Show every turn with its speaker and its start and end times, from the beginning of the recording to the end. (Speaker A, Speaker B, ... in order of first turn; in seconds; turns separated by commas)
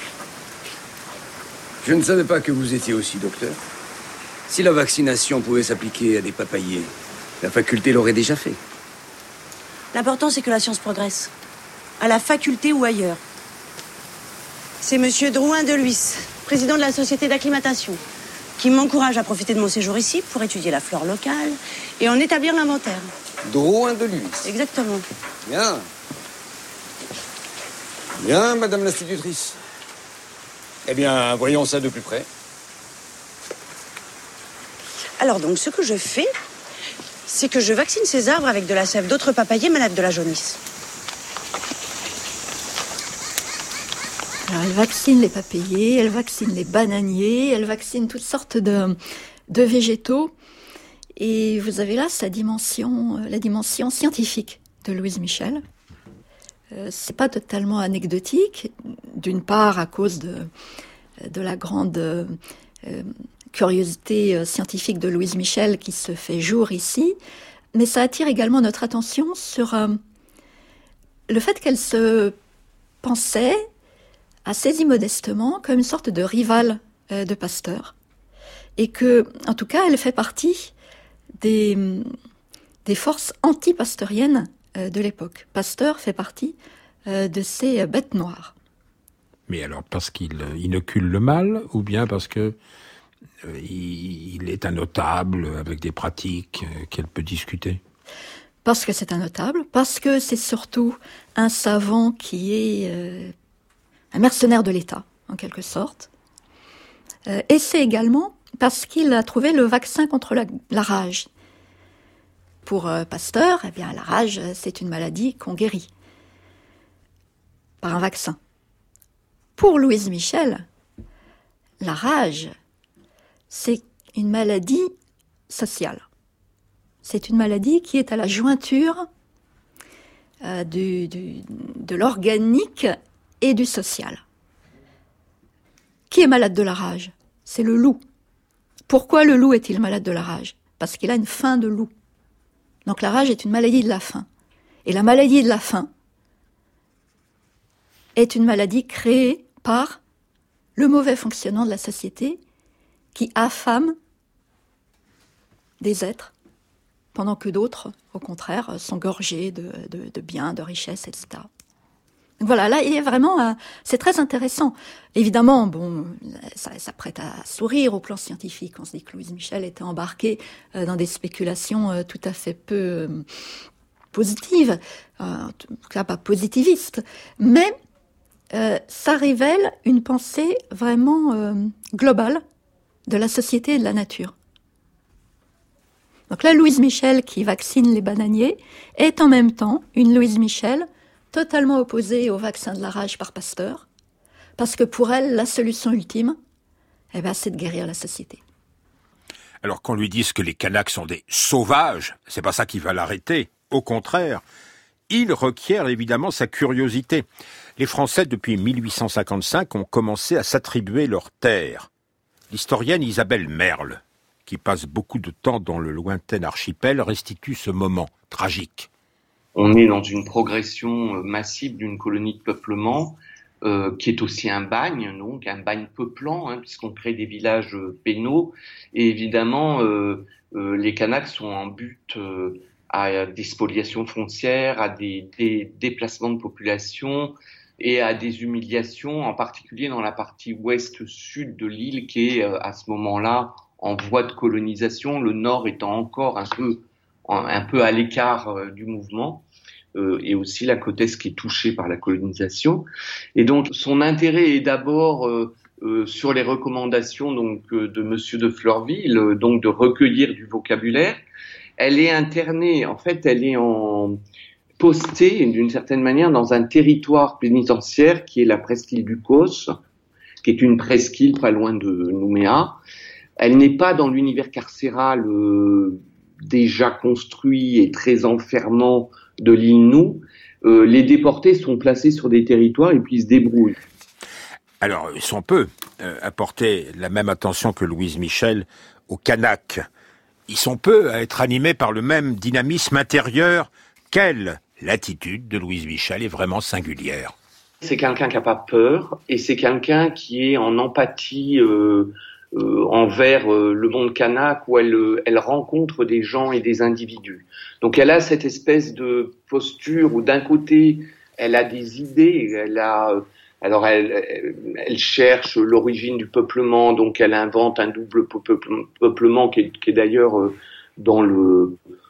Speaker A: 1.8-3.6, Speaker A: 4.5-8.6, Speaker B: 9.9-11.3, Speaker B: 12.0-13.2, Speaker B: 14.8-18.0, Speaker B: 18.6-23.1, Speaker A: 23.4-24.5, Speaker B: 24.4-25.0, Speaker A: 25.4-25.9, Speaker A: 28.2-29.6, Speaker A: 30.9-32.3, Speaker B: 35.2-36.3, Speaker B: 37.3-40.6, Speaker C: 44.5-49.0, Speaker C: 49.5-50.3, Speaker C: 51.2-55.6, Speaker C: 56.7-60.5, Speaker C: 61.2-67.2, Speaker C: 67.7-70.0, Speaker C: 71.3-72.3, Speaker C: 73.0-73.7, Speaker C: 74.5-77.9, Speaker C: 78.8-80.7, Speaker C: 81.4-82.1, Speaker C: 82.9-88.5, Speaker D: 89.5-92.6, Speaker D: 93.4-97.8, Speaker C: 98.6-103.3, Speaker C: 104.1-106.1, Speaker C: 107.3-111.3, Speaker C: 112.6-115.9, Speaker C: 117.8-118.4, Speaker C: 119.6-120.7, Speaker C: 121.8-122.5, Speaker C: 123.5-124.9, Speaker C: 125.5-126.0, Speaker C: 127.0-129.1, Speaker C: 130.4-134.2, Speaker C: 136.1-138.0, Speaker C: 138.9-141.9, Speaker C: 142.9-144.3, Speaker C: 144.9-145.9, Speaker C: 148.2-150.0, Speaker C: 150.8-152.4, Speaker C: 153.2-153.9, Speaker C: 155.8-156.3, Speaker C: 157.1-161.5, Speaker C: 162.4-173.2, Speaker C: 174.1-177.7, Speaker C: 178.5-182.4, Speaker C: 183.1-184.3, Speaker C: 186.3-193.8, Speaker C: 194.6-196.4, Speaker C: 197.1-198.4, Speaker D: 199.6-204.4, Speaker D: 205.1-207.2, Speaker D: 207.8-211.9, Speaker D: 212.5-218.9, Speaker E: 219.6-261.2, Speaker E: 261.8-264.2, Speaker E: 264.8-269.7, Speaker E: 270.4-272.8, Speaker E: 273.4-283.8, Speaker D: 284.8-289.9, Speaker D: 290.5-297.3, Speaker E: 297.8-321.8